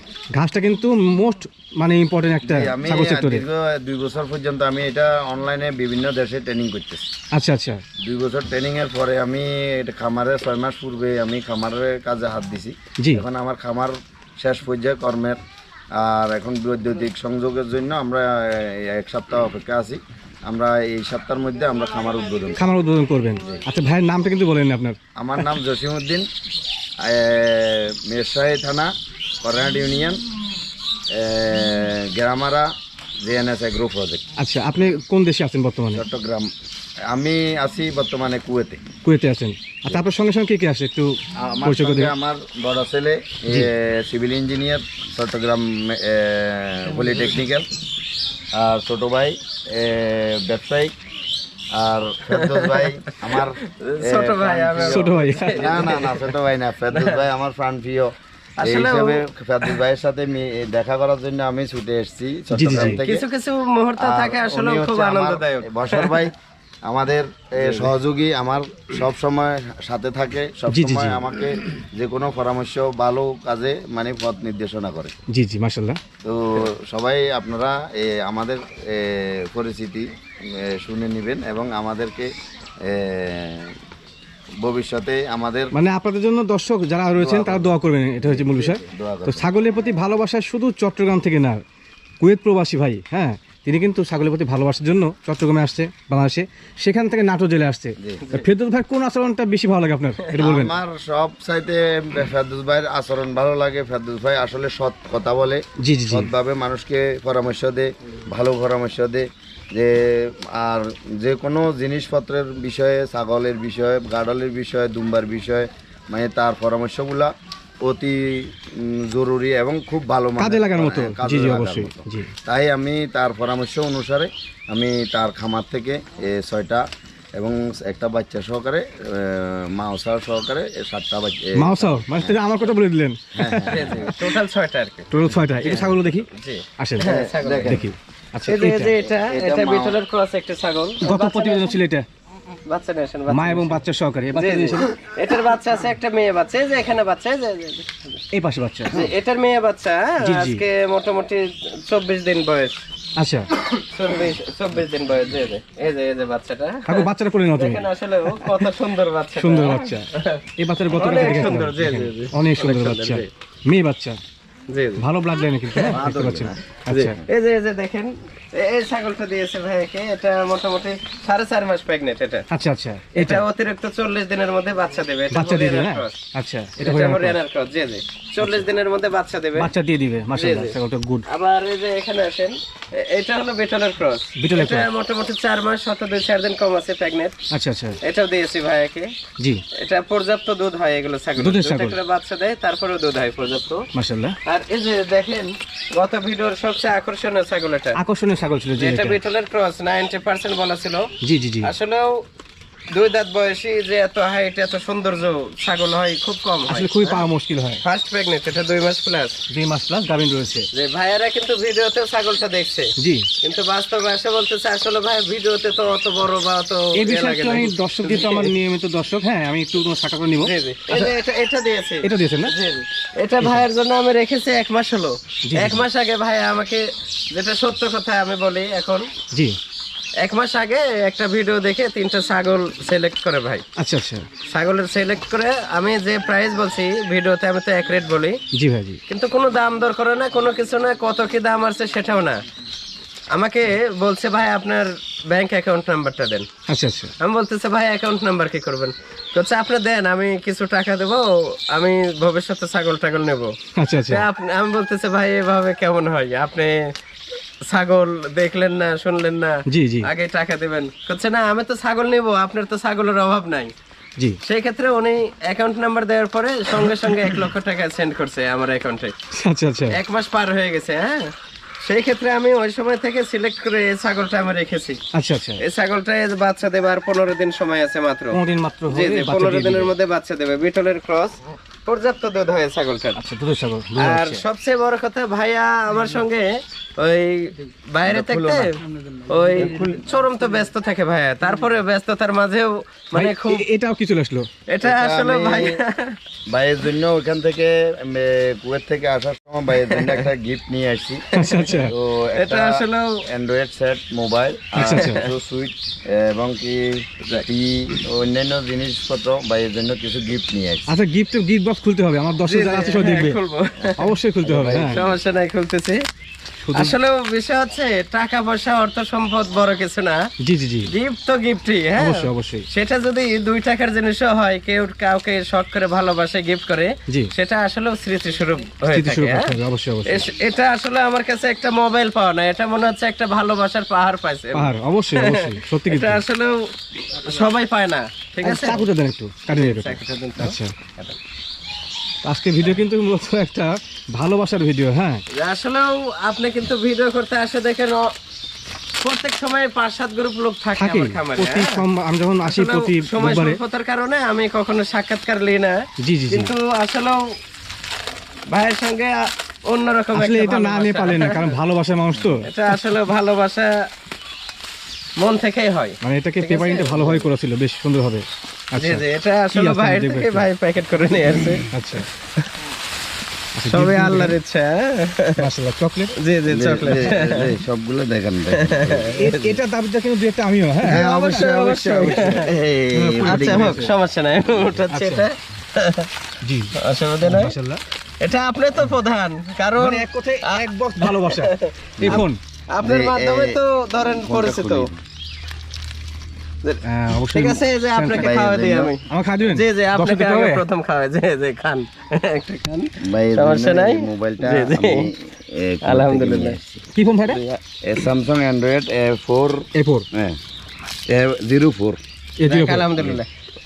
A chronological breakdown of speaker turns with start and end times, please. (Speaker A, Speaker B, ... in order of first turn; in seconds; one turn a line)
Speaker A: 0.3-3.4
Speaker B: 2.4-7.1
Speaker A: 7.3-7.8
Speaker B: 8.0-15.4
Speaker B: 16.0-22.6
Speaker A: 22.6-25.0
Speaker B: 25.2-26.3
Speaker B: 27.0-28.9
Speaker B: 29.4-30.2
Speaker B: 31.1-32.7
Speaker B: 33.2-34.2
Speaker A: 34.4-36.0
Speaker B: 35.9-36.5
Speaker B: 37.1-38.8
Speaker A: 39.0-42.1
Speaker B: 41.4-47.7
Speaker B: 48.5-50.9
Speaker B: 51.7-63.2
Speaker C: 52.4-56.3
Speaker A: 54.9-55.9
Speaker C: 56.9-57.2
Speaker C: 58.6-59.2
Speaker A: 62.5-63.0
Speaker C: 62.7-66.2
Speaker B: 64.0-66.3
Speaker B: 66.9-75.2
Speaker C: 67.6-67.9
Speaker A: 70.7-71.2
Speaker A: 75.3-76.0
Speaker B: 76.2-82.3
Speaker B: 82.8-83.8
Speaker B: 84.6-85.7
Speaker A: 85.7-91.6
Speaker B: 87.2-89.5
Speaker A: 92.2-100.8
Speaker B: 98.0-98.2
Speaker B: 100.4-117.3
Speaker A: 105.8-106.3
Speaker B: 117.8-126.8
Speaker A: 120.4-122.3
Speaker B: 127.4-132.4
Speaker A: 131.6-134.2
Speaker B: 133.4-134.1
Speaker C: 133.7-137.8
Speaker A: 135.1-136.3
Speaker B: 135.4-136.0
Speaker A: 136.8-137.1
Speaker B: 137.0-137.8
Speaker A: 137.6-138.9
Speaker C: 138.4-141.7
Speaker B: 139.3-140.0
Speaker A: 141.0-142.1
Speaker C: 142.7-148.2
Speaker A: 143.3-144.9
Speaker A: 148.3-149.0
Speaker C: 148.9-152.8
Speaker A: 150.2-150.6
Speaker A: 153.2-153.5
Speaker C: 153.6-163.3
Speaker A: 156.9-158.6
Speaker A: 159.3-160.1
Speaker A: 160.6-164.2
Speaker C: 164.7-165.0
Speaker A: 165.0-167.2
Speaker C: 165.7-172.5
Speaker B: 165.9-166.6
Speaker A: 172.5-173.4
Speaker C: 173.2-176.2
Speaker A: 175.3-177.4
Speaker C: 176.8-179.7
Speaker A: 179.6-181.3
Speaker C: 180.3-180.8
Speaker C: 181.3-187.4
Speaker A: 184.4-184.9
Speaker A: 187.5-188.0
Speaker C: 188.0-189.1
Speaker C: 189.8-193.9
Speaker A: 191.4-192.0
Speaker A: 193.9-194.4
Speaker C: 194.5-198.0
Speaker A: 197.9-199.2
Speaker C: 198.8-201.1
Speaker A: 201.2-201.7
Speaker C: 201.6-202.3
Speaker C: 202.9-207.3
Speaker A: 206.7-207.8
Speaker C: 207.8-209.4
Speaker A: 209.5-210.7
Speaker C: 210.7-218.5
Speaker A: 213.0-213.3
Speaker A: 216.9-221.1
Speaker C: 220.4-229.1
Speaker A: 222.0-222.5
Speaker A: 225.5-225.8
Speaker C: 230.2-233.6
Speaker A: 233.8-234.2
Speaker C: 234.5-238.4
Speaker A: 238.5-239.0
Speaker C: 239.1-242.4
Speaker C: 243.3-246.5
Speaker A: 246.7-247.1
Speaker C: 247.2-253.5
Speaker A: 253.8-254.2
Speaker C: 254.1-256.8
Speaker C: 257.7-263.7
Speaker A: 259.7-260.1
Speaker C: 264.4-269.1
Speaker A: 269.3-270.0
Speaker C: 269.9-271.3
Speaker C: 271.8-275.0
Speaker A: 275.1-275.6
Speaker C: 275.6-278.4
Speaker A: 278.3-279.9
Speaker C: 278.9-283.2
Speaker A: 283.2-284.4
Speaker C: 284.0-293.7
Speaker B: 288.1-288.7
Speaker A: 293.1-294.5
Speaker C: 294.7-296.2
Speaker B: 294.8-295.8
Speaker B: 296.5-301.3
Speaker C: 299.9-300.2
Speaker A: 301.3-301.9
Speaker C: 301.4-303.2
Speaker B: 301.9-310.9
Speaker A: 304.8-305.2
Speaker C: 304.8-305.3
Speaker A: 310.9-313.4
Speaker C: 312.4-316.0
Speaker A: 314.0-315.0
Speaker B: 314.4-315.1
Speaker A: 316.6-316.9
Speaker C: 316.7-320.2
Speaker A: 320.4-320.9
Speaker C: 320.9-329.5
Speaker A: 322.0-322.6
Speaker A: 328.9-330.2
Speaker C: 330.1-336.5
Speaker A: 334.5-336.2
Speaker C: 337.2-338.8
Speaker A: 338.4-340.7
Speaker C: 339.6-341.1
Speaker A: 342.2-345.2
Speaker C: 345.4-348.1
Speaker C: 349.0-351.8
Speaker A: 350.8-353.6
Speaker C: 352.4-355.8
Speaker A: 356.0-356.5
Speaker C: 356.3-357.2
Speaker C: 358.5-361.5
Speaker A: 360.1-362.8
Speaker C: 362.5-363.7
Speaker C: 365.2-367.2
Speaker A: 366.0-370.4
Speaker C: 368.8-371.7
Speaker A: 371.7-372.1
Speaker A: 373.6-374.4
Speaker C: 373.7-375.4
Speaker A: 375.4-376.1
Speaker C: 376.2-377.5
Speaker B: 376.5-379.1
Speaker C: 378.5-379.6
Speaker A: 379.1-383.9
Speaker C: 380.9-382.5
Speaker B: 380.9-383.8
Speaker C: 383.2-386.1
Speaker A: 384.9-385.3
Speaker A: 386.4-387.8
Speaker C: 386.8-387.6
Speaker C: 388.2-394.9
Speaker A: 389.8-392.4
Speaker B: 392.0-392.2
Speaker B: 392.8-395.0
Speaker C: 396.6-405.1
Speaker A: 396.8-398.3
Speaker B: 398.2-398.9
Speaker A: 399.1-400.6
Speaker B: 403.0-410.4
Speaker C: 405.8-406.6
Speaker A: 406.9-407.4
Speaker A: 409.8-410.1
Speaker B: 411.1-412.0
Speaker A: 412.4-413.1
Speaker C: 412.5-413.3